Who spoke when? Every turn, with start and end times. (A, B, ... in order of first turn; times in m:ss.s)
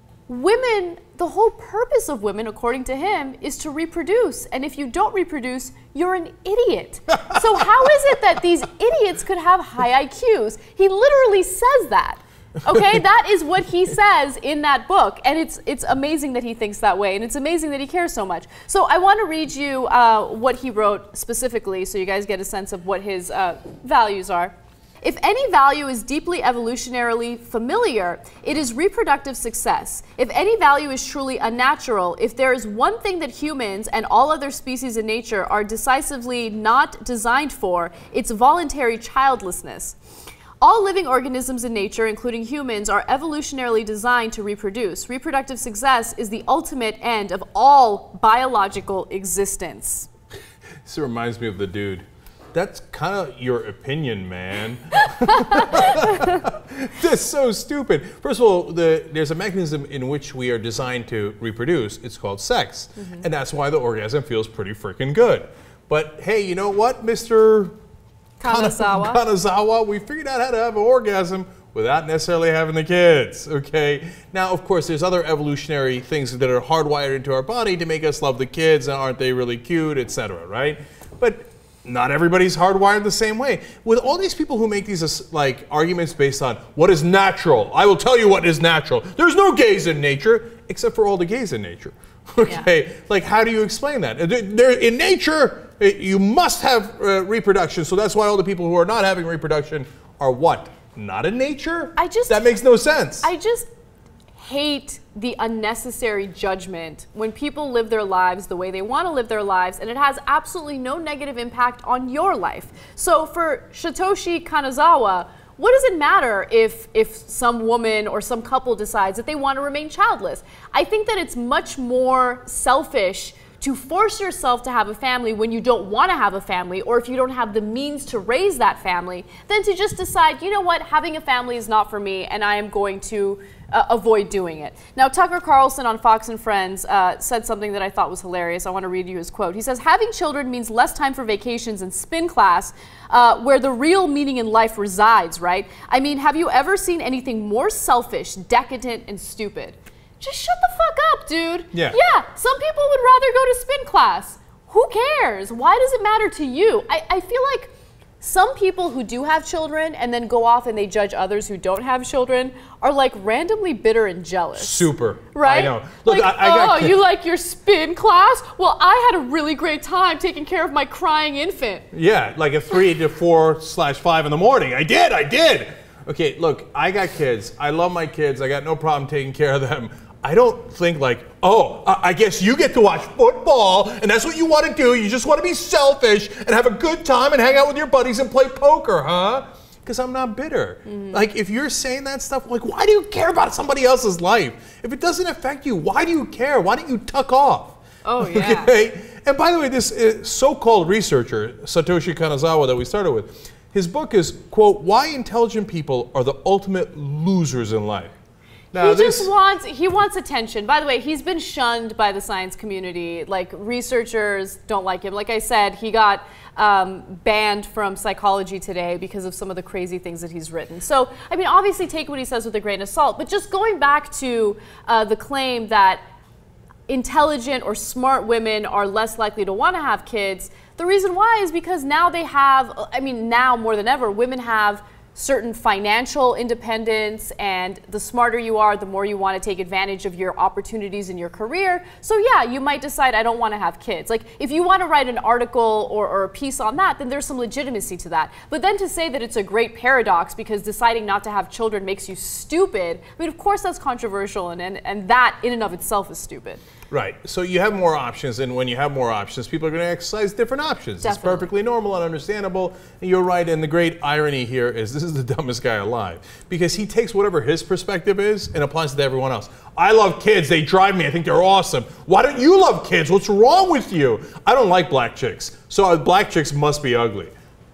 0:00.3-0:40.0 A
0:40.6-0:50.1 A
0:50.8-1:07.7 B
0:55.3-0:56.3 A
1:03.0-1:03.2 A
1:08.4-1:09.2 A
1:08.4-1:43.3 B
1:42.0-1:42.4 A
1:43.2-1:43.7 A
1:44.4-2:51.9 A
2:44.6-2:47.0 B
2:51.9-3:28.1 B
3:10.8-3:11.2 A
3:18.0-3:18.7 A
3:28.7-3:29.3 B
3:28.7-3:46.0 A
3:46.9-4:16.6 A
4:16.9-4:37.3 B
4:21.0-4:21.5 A